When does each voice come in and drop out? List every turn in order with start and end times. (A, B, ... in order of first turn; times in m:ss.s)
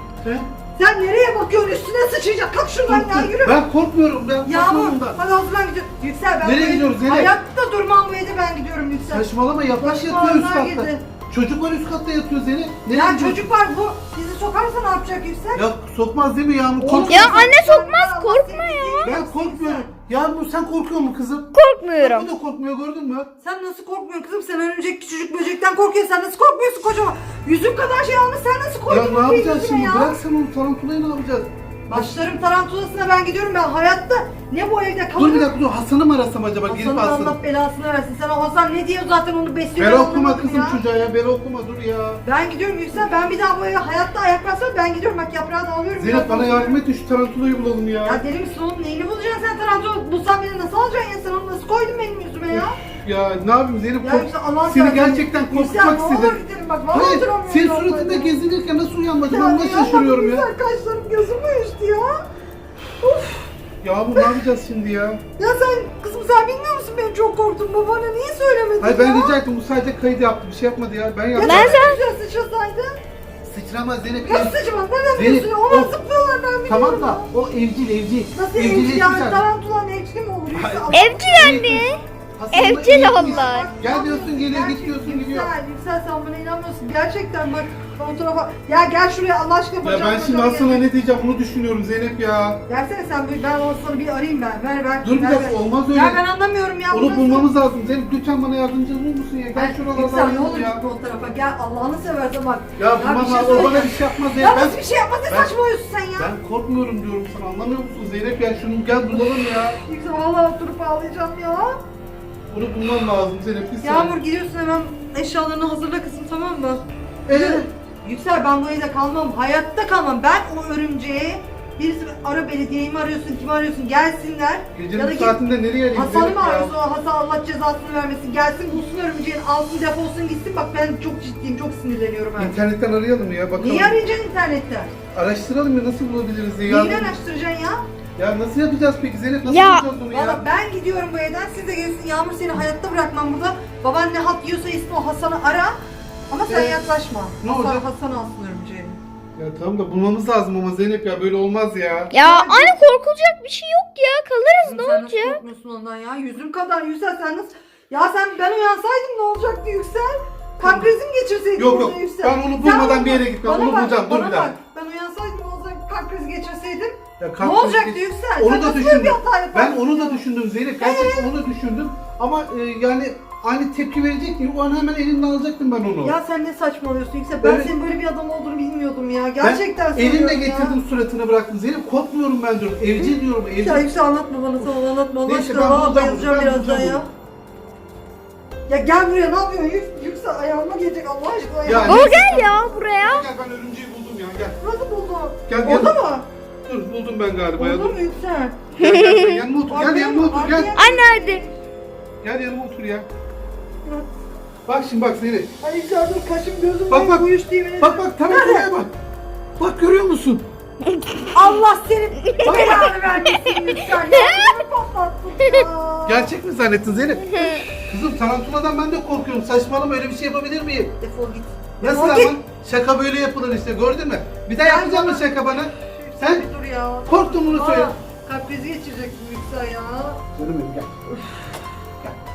0:00.2-0:00.5 A
0:00.8-0:03.6 B
0:02.9-0:05.2 A
0:04.4-0:09.2 B
0:06.4-0:07.3 A
0:09.0-0:13.4 A
0:09.8-0:11.0 B
0:12.9-0:15.6 B
0:15.5-0:17.4 A
0:16.8-0:19.9 B
0:17.1-0:19.1 C
0:19.0-0:23.3 A
0:21.5-0:22.3 C
0:23.4-0:30.2 B
0:28.9-0:32.1 A
0:31.9-0:35.5 B
0:35.2-0:37.4 A
0:36.6-0:40.8 B
0:39.8-0:42.2 A
0:42.2-0:46.8 B
0:46.0-0:48.2 A
0:48.0-0:52.8 B
0:52.5-0:56.4 A
0:54.0-0:58.3 B
0:56.9-1:00.4 A
0:59.3-1:02.2 B
1:03.0-1:03.5 B
1:03.8-1:05.2 A
1:05.4-1:09.4 B
1:08.8-1:11.9 A
1:11.3-1:13.0 B
1:11.4-1:12.0 C
1:13.4-1:14.6 A
1:14.2-1:17.3 B
1:15.2-1:15.9 A
1:16.7-1:19.4 A
1:18.3-1:21.4 B
1:20.5-1:25.5 A
1:20.9-1:22.0 C
1:22.5-1:23.7 C
1:23.0-1:30.8 B
1:29.8-1:32.6 A
1:32.7-1:37.5 B
1:35.0-1:36.2 A
1:36.9-1:40.8 A
1:39.5-1:46.3 B
1:42.8-1:45.5 A
1:46.2-1:49.8 A
1:49.4-1:51.8 B
1:52.5-1:54.2 A
1:53.8-2:05.4 B
1:57.2-1:57.7 A
2:04.7-2:06.7 A
2:05.9-2:12.6 B
2:12.4-2:14.0 A
2:13.6-2:14.9 B
2:15.1-2:17.1 A
2:16.6-2:17.8 B
2:18.2-2:20.4 A
2:19.4-2:19.9 C
2:20.1-2:25.8 B
2:26.3-2:29.0 B
2:26.5-2:26.8 A
2:27.4-2:27.8 A
2:29.4-2:32.1 A
2:32.1-2:35.4 C
2:32.2-2:32.8 B
2:34.6-2:50.2 B
2:40.6-2:40.9 A
2:41.6-2:44.5 A
2:47.2-2:56.2 A
2:50.8-2:51.3 B
2:56.0-3:00.8 B
2:57.4-2:57.7 A
2:59.4-3:03.9 A
3:03.0-3:07.1 B
3:05.2-3:07.0 A
3:08.7-3:12.1 B
3:11.6-3:14.6 A
3:11.8-3:13.2 C
3:14.6-3:16.2 B
3:15.5-3:15.9 A
3:16.6-3:18.0 A
3:17.6-3:18.7 B
3:18.8-3:19.4 C
3:18.8-3:20.7 A
3:19.7-3:21.6 B
3:20.8-3:21.4 C
3:22.2-3:23.1 A
3:24.7-3:25.5 A
3:25.6-3:28.7 B
3:26.9-3:27.3 A
3:27.8-3:28.9 A
3:29.6-3:30.4 A
3:31.3-3:36.4 B
3:32.3-3:34.5 C
3:32.4-3:32.8 A
3:36.0-3:41.0 A
3:37.0-3:37.8 B
3:37.3-3:37.6 C
3:41.0-3:42.4 B
3:41.8-3:46.5 A
3:44.6-3:50.2 B
3:47.1-3:47.9 A
3:50.4-3:50.9 A
3:51.1-3:51.7 B